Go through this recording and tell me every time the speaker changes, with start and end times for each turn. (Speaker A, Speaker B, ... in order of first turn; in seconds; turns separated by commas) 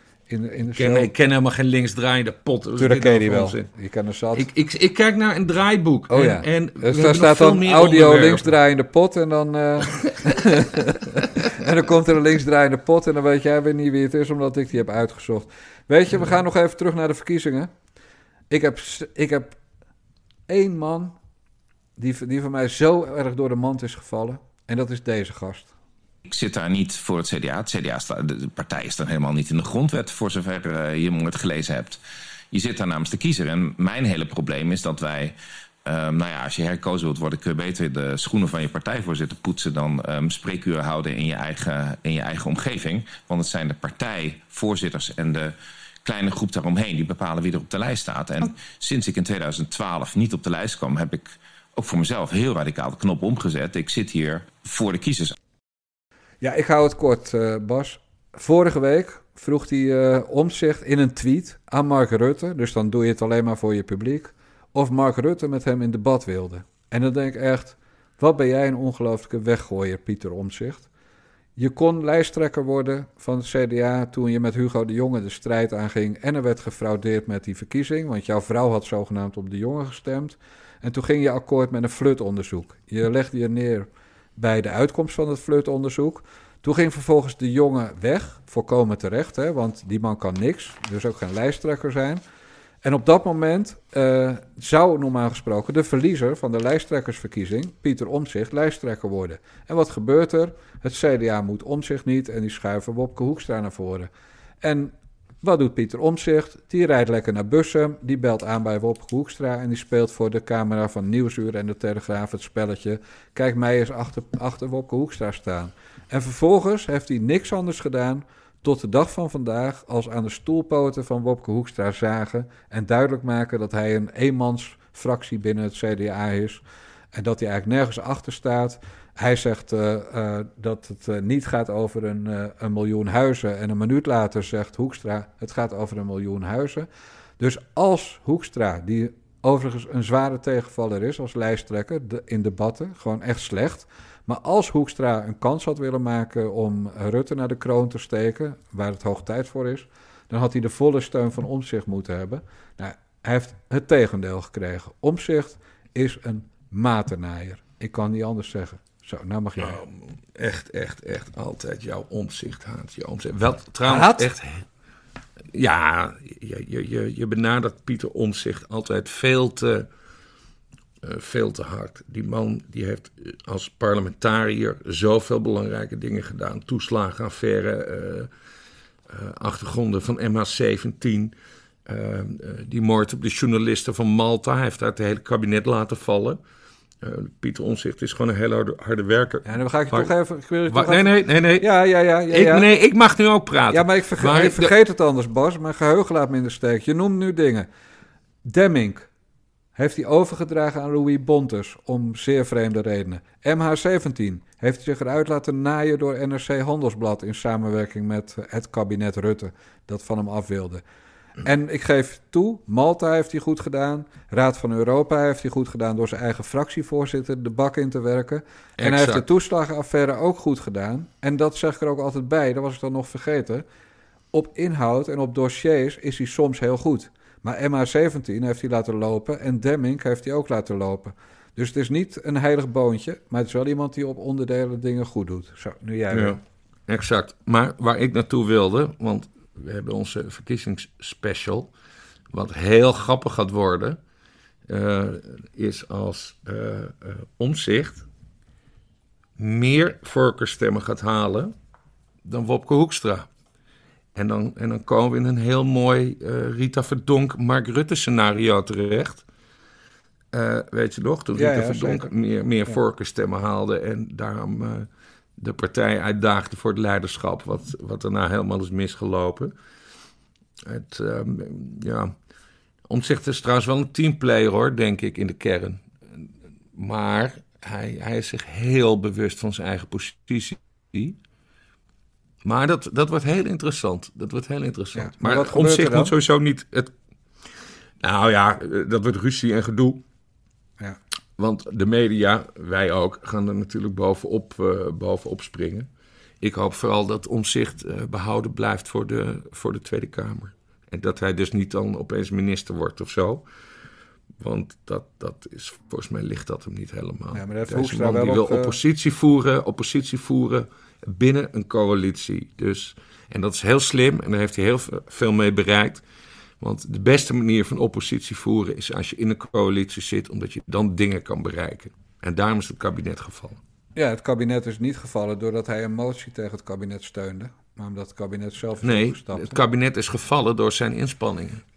Speaker A: 0.3-1.1, Speaker B: 0.8-3.7, Speaker A: 2.8-4.5, Speaker B: 4.3-8.5, Speaker A: 6.1-17.7, Speaker A: 18.5-19.6, Speaker A: 20.5-21.1, Speaker A: 22.0-25.7, Speaker C: 26.3-32.0, Speaker C: 32.5-35.4, Speaker C: 35.9-55.4, Speaker A: 56.4-70.9, Speaker A: 71.6-92.2, Speaker A: 92.8-104.1, Speaker A: 104.6-126.6, Speaker A: 127.1-136.9, Speaker A: 137.4-159.8, Speaker B: 159.6-164.6, Speaker A: 163.8-164.3, Speaker B: 165.5-169.9, Speaker B: 171.0-178.3, Speaker B: 179.1-181.3, Speaker B: 181.9-186.4, Speaker B: 187.0-190.1, Speaker A: 189.5-191.1, Speaker B: 190.7-191.7, Speaker A: 191.6-192.7, Speaker B: 192.3-194.7, Speaker A: 193.7-197.7, Speaker A: 198.4-199.1, Speaker A: 199.8-210.8, Speaker A: 211.4-223.7, Speaker B: 218.8-219.2, Speaker A: 224.3-236.4, Speaker B: 236.1-241.7, Speaker B: 242.3-244.0, Speaker B: 244.7-248.1, Speaker B: 249.4-251.5, Speaker B: 252.2-253.3, Speaker B: 254.2-259.2, Speaker B: 260.3-269.5, Speaker A: 261.4-262.0, Speaker B: 270.6-272.1, Speaker B: 272.9-281.2, Speaker B: 282.4-286.9, Speaker A: 285.0-286.1, Speaker B: 288.0-290.0, Speaker B: 291.4-295.9, Speaker B: 296.4-303.4, Speaker B: 304.4-316.0, Speaker A: 307.3-308.8, Speaker B: 316.6-323.6, Speaker A: 324.0-329.6, Speaker B: 328.8-331.6